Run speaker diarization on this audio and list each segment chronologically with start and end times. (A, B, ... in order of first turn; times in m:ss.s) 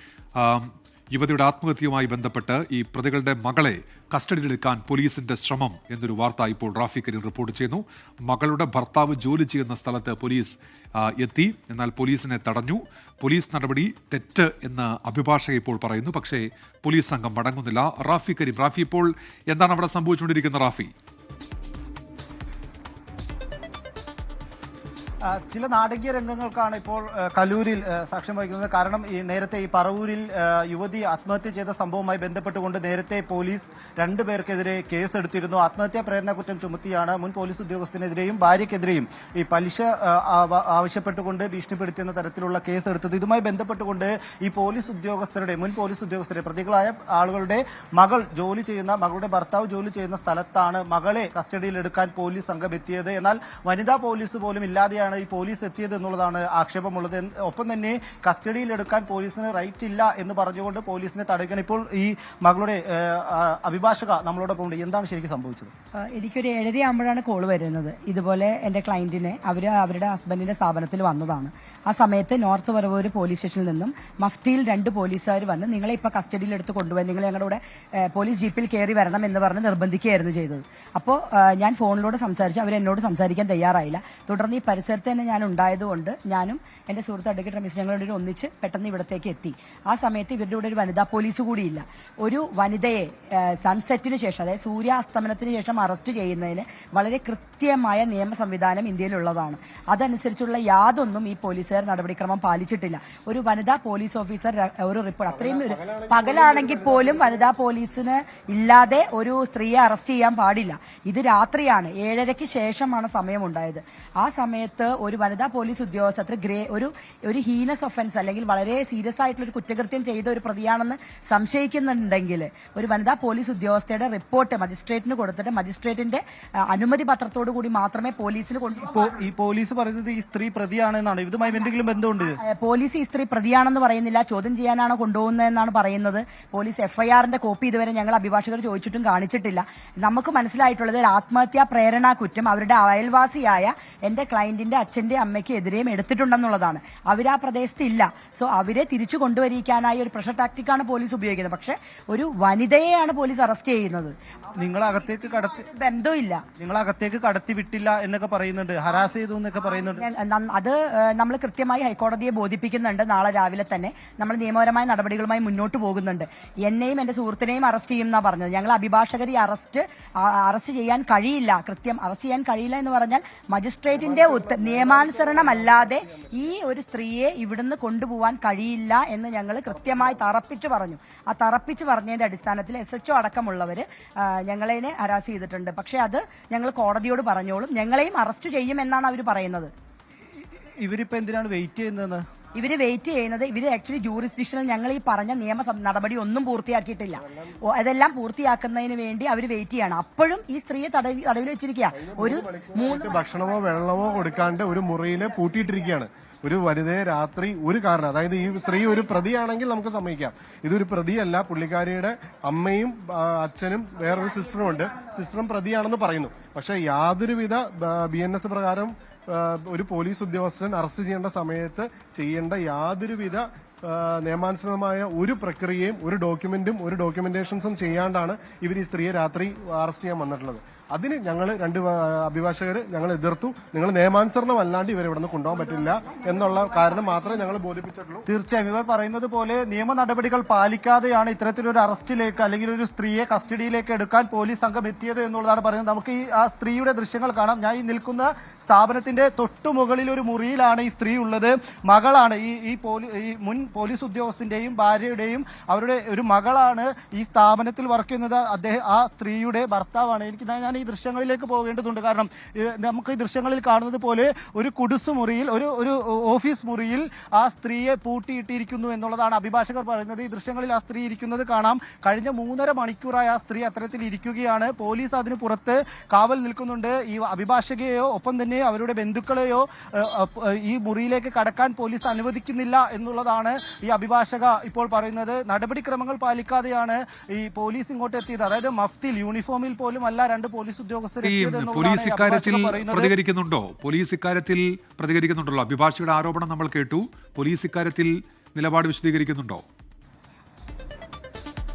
0:00.4-0:20.9 A
0:25.3-1:05.7 B
1:06.1-2:09.1 C
1:45.3-1:47.5 D
2:08.8-2:12.4 B
2:12.4-2:34.1 C
2:34.5-2:35.7 B
2:35.2-2:36.4 C
2:36.6-2:40.0 B
2:40.0-3:09.7 C
2:53.9-2:56.5 D
2:59.7-3:00.2 D
3:10.8-3:12.2 B
3:12.6-3:23.2 C
3:21.9-3:58.2 D
3:55.5-3:57.5 C
3:58.2-4:53.1 B
4:51.2-4:59.6 A